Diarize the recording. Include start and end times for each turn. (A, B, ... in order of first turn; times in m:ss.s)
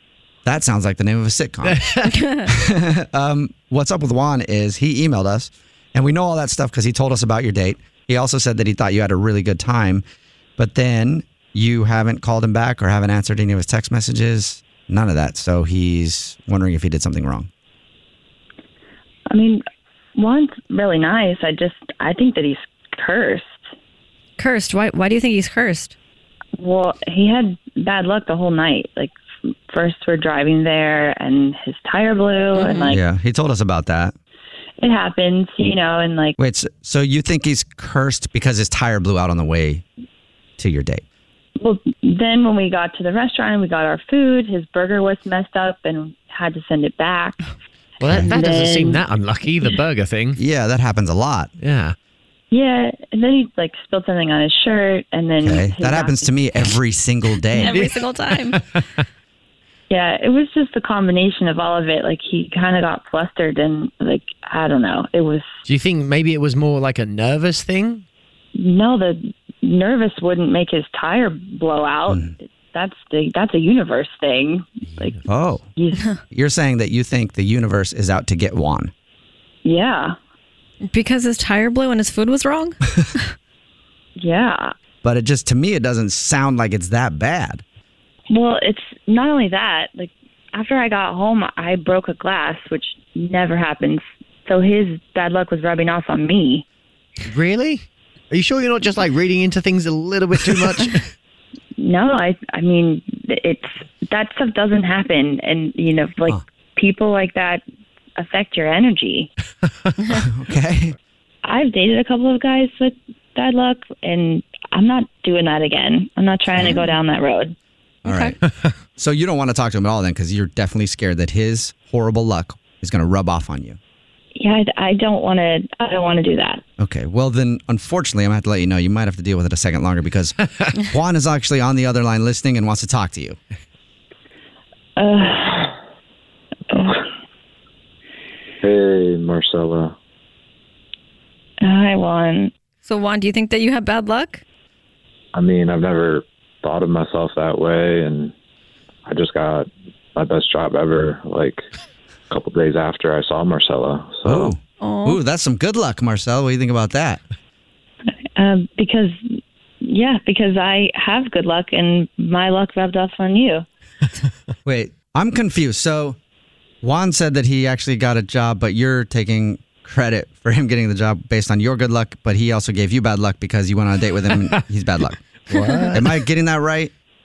0:00.4-0:10.0 A
0:01.6-0:02.2 B
0:10.6-0:17.5 A
0:19.3-0:19.6 C
0:20.2-0:23.6 C
0:24.4-0:25.9 D
0:26.6-0:29.2 C
0:29.7-0:33.0 C
0:32.6-0:32.9 D
0:32.9-0:34.2 A
0:34.8-0:36.4 C
0:36.4-0:39.8 A
0:40.6-0:41.0 A
0:41.6-0:47.4 C
0:48.0-0:50.4 B
0:48.2-0:49.0 C
0:50.4-0:51.5 A
0:51.6-0:52.0 B
0:52.5-0:56.4 C
0:55.4-0:57.9 A
0:57.6-0:58.6 D
0:57.6-0:58.8 B
0:59.9-1:05.4 C
1:05.7-1:08.0 B
1:08.6-1:15.2 C
1:12.1-1:12.4 A
1:14.8-1:15.3 B
1:15.3-1:15.7 A
1:15.8-1:16.0 C
1:16.3-1:18.9 A
1:19.6-1:20.2 C
1:20.9-1:23.2 D
1:24.2-1:24.7 C
1:25.0-1:27.6 A
1:28.3-1:36.6 C
1:37.2-1:41.1 B
1:41.8-1:47.6 C
1:48.2-1:49.3 C
1:50.1-1:51.0 A
1:51.4-1:57.6 C
1:58.0-1:58.4 A
1:58.1-1:58.3 D
1:59.0-2:03.8 A
2:04.4-2:06.6 C
2:06.8-2:13.4 A
2:15.0-2:15.7 C
2:16.7-2:17.0 C
2:18.6-2:19.9 E
2:21.6-2:22.5 C
2:22.8-2:24.4 D
2:25.3-2:28.3 E
2:29.1-2:31.6 E
2:32.3-2:34.6 E
2:34.2-2:37.2 A
2:34.8-2:35.2 D
2:38.4-2:39.2 C
2:39.8-2:43.6 C
2:44.6-2:46.2 A
2:46.8-2:55.3 A
2:55.5-2:56.1 B
2:55.9-2:56.9 A